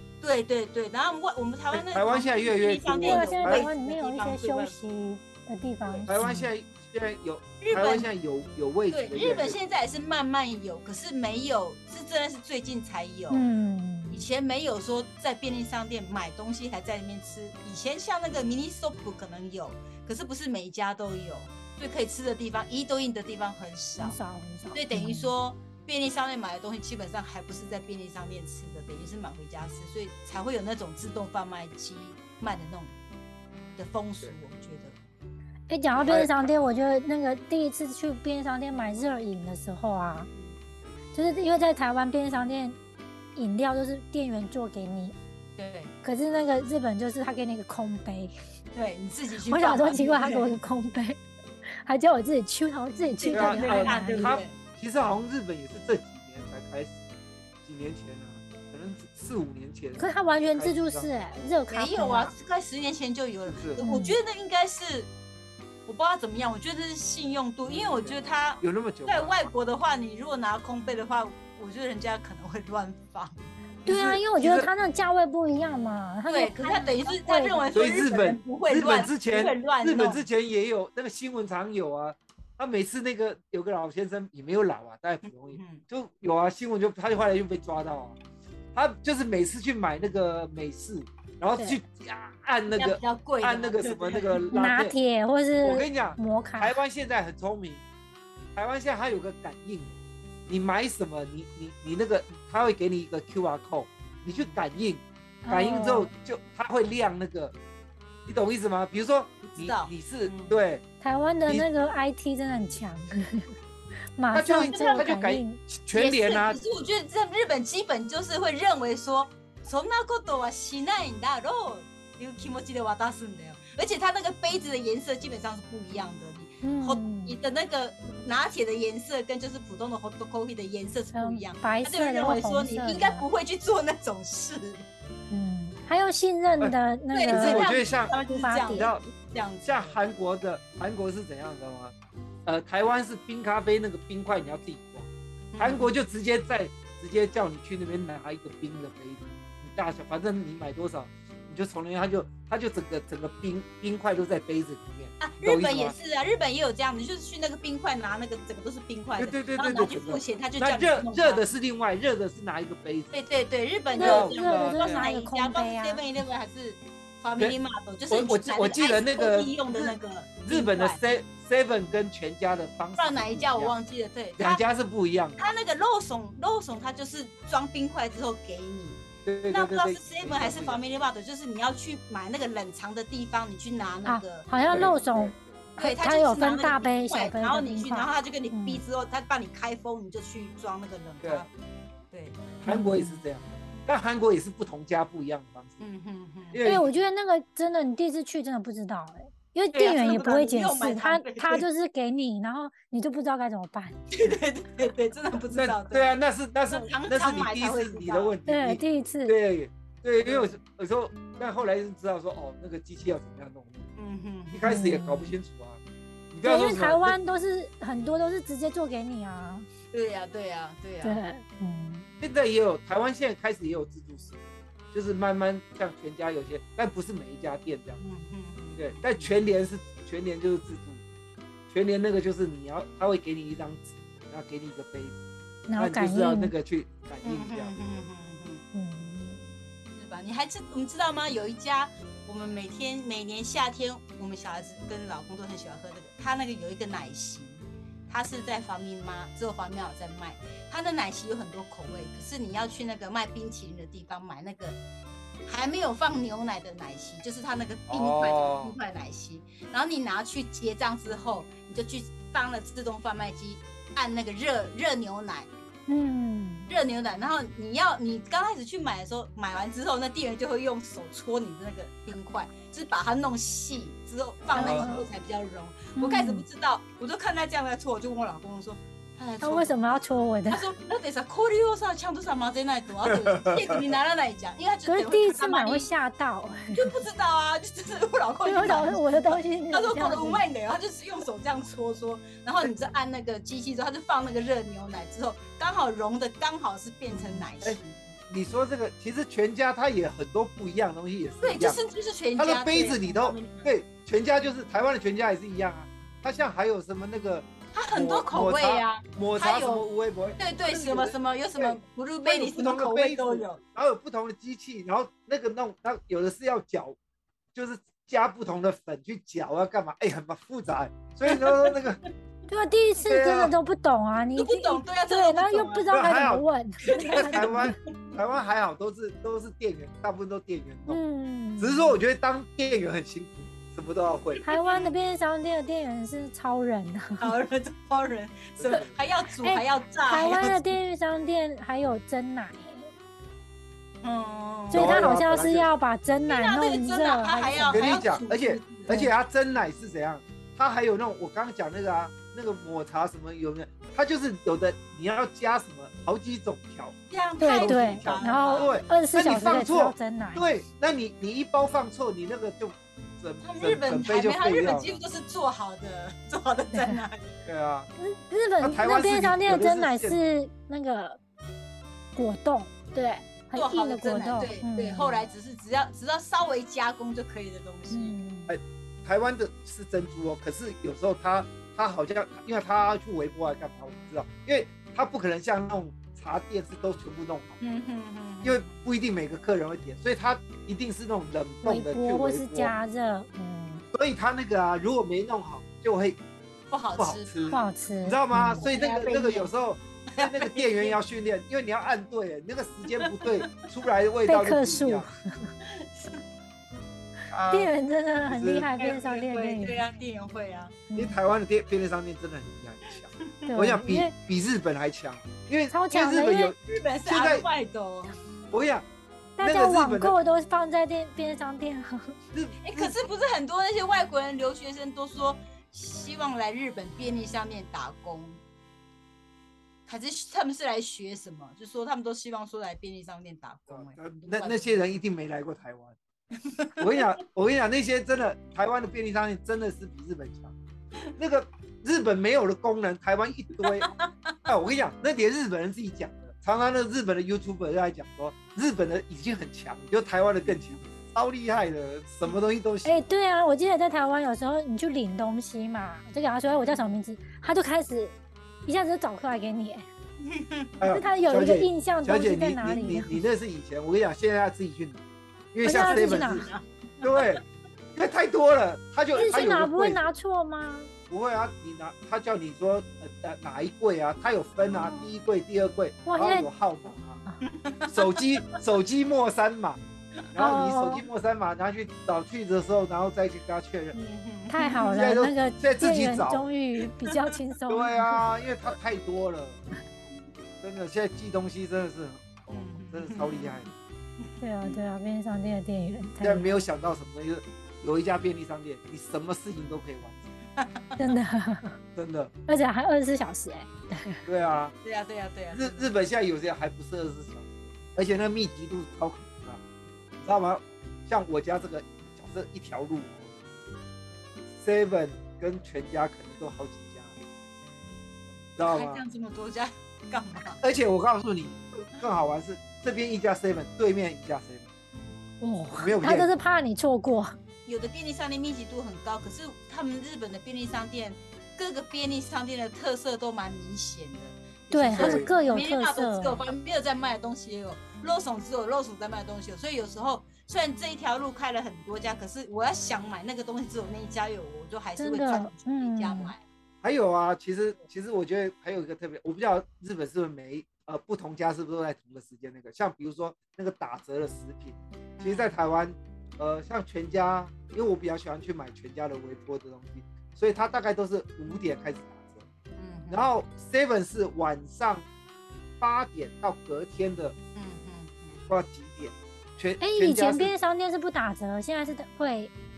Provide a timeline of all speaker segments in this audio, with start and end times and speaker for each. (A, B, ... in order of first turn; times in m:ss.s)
0:00.2-0:04.8 A
0:01.7-0:03.7 B
0:03.0-0:06.5 C
0:05.8-0:06.1 A
0:06.1-0:09.6 B
0:07.6-0:08.1 A
0:08.9-0:13.4 A
0:13.3-0:14.2 C
0:14.1-0:24.2 A
0:24.0-0:25.3 C
0:24.7-0:32.9 A
0:33.8-0:35.0 A
0:35.7-0:40.3 C
0:36.0-0:36.5 B
0:41.1-0:42.8 C
0:43.4-0:45.2 C
0:45.6-0:45.9 A
0:46.0-0:48.3 C
0:48.8-0:50.6 A
0:49.5-0:51.2 C
0:51.8-0:54.4 C
0:53.2-0:54.6 A
0:53.3-0:57.0 B
0:57.6-1:01.4 B
1:00.0-1:02.3 C
1:01.7-1:05.1 A
1:03.5-1:03.8 B
1:03.8-1:04.2 C
1:05.9-1:13.5 A
1:07.6-1:09.5 B
1:13.8-1:14.7 B
1:13.8-1:17.7 C
1:16.3-1:20.2 A
1:17.7-1:28.2 B
1:25.2-1:25.8 A
1:28.7-1:35.0 B
1:32.7-1:34.5 A
1:34.5-1:36.8 C
1:35.6-1:37.8 B
1:38.6-1:40.0 B
1:40.5-1:47.5 B
1:44.3-1:44.6 A
1:45.4-1:46.1 C
1:48.3-1:50.8 B
1:49.4-1:50.6 A
1:51.0-1:53.5 C
1:54.2-1:55.6 C
1:54.3-1:56.6 B
1:54.7-1:55.1 A
1:55.9-2:14.8 A
2:06.6-2:07.4 C
2:11.1-2:13.3 C
2:15.3-2:18.9 C
2:17.1-2:20.0 A
2:17.3-2:18.2 B
2:18.7-2:19.1 B
2:19.6-2:21.9 B
2:22.5-2:36.0 B
2:25.5-2:25.9 A
2:35.2-2:41.4 A
2:39.2-2:43.2 B
2:43.1-2:51.0 A
2:44.0-2:46.0 C
2:44.0-2:45.1 B
2:48.1-2:53.7 B
2:53.0-2:54.6 A
2:54.4-2:55.4 B
2:55.4-3:04.9 A
2:59.3-3:00.8 B
3:04.0-3:08.8 C
3:04.7-3:05.7 B
3:05.8-3:11.5 A
3:12.1-3:12.5 A
3:12.6-3:15.8 B
3:12.7-3:13.2 C
3:15.8-3:16.6 A
3:16.5-3:16.9 B
3:16.6-3:24.0 C
3:19.7-3:21.7 A
3:24.1-3:26.1 A
3:25.5-3:33.9 B
3:26.7-3:28.4 A
3:28.5-3:29.4 C
3:30.2-3:30.5 A
3:34.0-3:34.8 A
3:34.5-3:35.8 B
3:34.6-3:35.3 C
3:36.3-3:37.2 B
3:36.4-3:39.7 C
3:39.9-3:41.2 A
3:41.0-3:42.1 C
3:42.2-3:44.4 B
3:44.9-3:48.0 B
3:48.0-3:49.3 A
3:48.8-3:51.0 B
3:51.7-3:55.2 B
3:55.7-3:56.5 C
3:55.8-3:57.8 B
3:57.2-3:58.6 A
3:58.7-3:59.5 C
3:59.9-4:14.8 A
4:15.5-4:25.5 A
4:17.9-4:18.8 B
4:25.9-4:26.7 C
4:26.7-4:45.9 A
4:34.5-4:35.0 B
4:34.6-4:35.1 C
4:36.0-4:36.4 C
4:39.4-4:40.7 C
4:43.0-4:43.8 B
4:44.9-4:46.9 C
4:46.7-4:58.0 A
4:48.4-4:50.4 C
4:57.6-5:01.8 B
5:01.4-5:03.7 A
5:02.4-5:17.0 B
5:07.7-5:09.8 A
5:10.4-5:13.6 A
5:17.5-5:22.0 B
5:21.3-5:21.8 A
5:22.5-5:27.7 C
5:23.0-5:23.5 B
5:24.4-5:25.9 A
5:25.9-5:26.4 B
5:26.8-5:28.2 A
5:27.1-5:31.0 B
5:30.9-5:32.0 C
5:31.6-5:34.4 B
5:34.4-5:34.9 A
5:34.4-5:37.3 C
5:37.2-5:40.8 A
5:38.6-5:38.9 B
5:39.4-5:42.9 C
5:44.0-5:45.1 A
5:44.7-5:45.7 B
5:44.7-5:47.9 C
5:46.3-5:49.0 A
5:47.7-6:05.0 B
5:57.1-5:58.8 A
5:57.4-6:00.5 C
6:03.4-6:07.4 A
6:06.7-6:07.0 C
6:07.5-6:07.9 B
6:08.0-6:11.2 C
6:08.6-6:10.2 B
6:12.2-6:15.2 C
6:13.6-6:18.2 A
6:17.9-6:18.5 C
6:18.5-6:27.6 B
6:27.6-6:28.9 A
6:28.4-6:32.7 B
6:31.6-6:33.9 C
6:33.9-6:36.2 B
6:36.7-6:37.6 A
6:36.9-6:45.1 B
6:37.5-6:38.7 C
6:38.6-6:39.5 A
6:40.1-6:41.0 A
6:43.0-6:43.7 A
6:44.3-6:45.5 C
6:45.6-6:46.2 A
6:47.3-6:47.7 B
6:47.5-6:49.8 C
6:48.3-6:48.7 B
6:48.8-6:50.8 A
6:50.9-6:51.2 C
6:51.0-6:57.5 B
6:53.3-6:53.5 A
6:53.5-6:54.1 C
6:55.7-6:56.5 C
6:56.7-6:58.2 A
6:58.5-6:58.8 B
6:59.4-7:02.1 C
6:59.4-7:00.2 B
7:02.3-7:03.0 B
7:02.6-7:08.4 A
7:09.9-7:15.0 A
7:13.7-7:16.0 B
7:16.4-7:17.1 A
7:16.8-7:20.6 B
7:21.2-7:23.9 B
7:23.6-7:24.4 A
7:24.5-7:33.0 B
7:32.8-7:38.2 C
7:38.7-7:39.8 C
7:40.2-7:40.8 A
7:40.8-7:45.0 B
7:40.9-7:43.2 C
7:45.5-7:46.5 B
7:45.6-7:46.5 C
7:45.7-7:47.3 A
7:47.0-7:47.4 B
7:48.0-7:50.0 B
7:49.2-7:50.9 C
7:51.1-7:57.2 B
7:54.7-7:55.1 A
7:56.0-7:56.5 C
7:57.4-7:58.6 A
7:57.9-7:59.8 B
8:00.3-8:04.0 B
8:00.4-8:01.0 C
8:03.9-8:05.0 A
8:04.5-8:08.2 C
8:04.9-8:06.5 B
8:07.0-8:07.3 A
8:07.7-8:09.6 B
8:10.6-8:13.7 B
8:12.5-8:14.8 A
8:14.4-8:16.6 C
8:16.2-8:20.3 B
8:20.6-8:21.2 A
8:21.0-8:21.8 C
8:22.0-8:22.3 B
8:22.5-8:24.2 C
8:24.3-8:24.7 B
8:24.8-8:25.9 A
8:25.5-8:29.6 B
8:30.2-8:33.3 B
8:34.6-8:37.2 B
8:38.6-8:39.0 B
8:38.6-8:40.6 A
8:40.6-8:44.7 B
8:45.4-8:47.4 C
8:45.8-8:46.3 B
8:47.7-9:06.4 A
8:54.7-8:56.4 C
8:54.9-8:55.3 B
9:05.0-9:06.3 C
9:06.8-9:22.4 B
9:15.2-9:15.5 A
9:22.8-9:23.3 A
9:23.1-9:25.1 B
9:25.8-9:27.4 B
9:27.6-9:28.4 A
9:28.5-9:30.5 B
9:29.8-9:32.5 C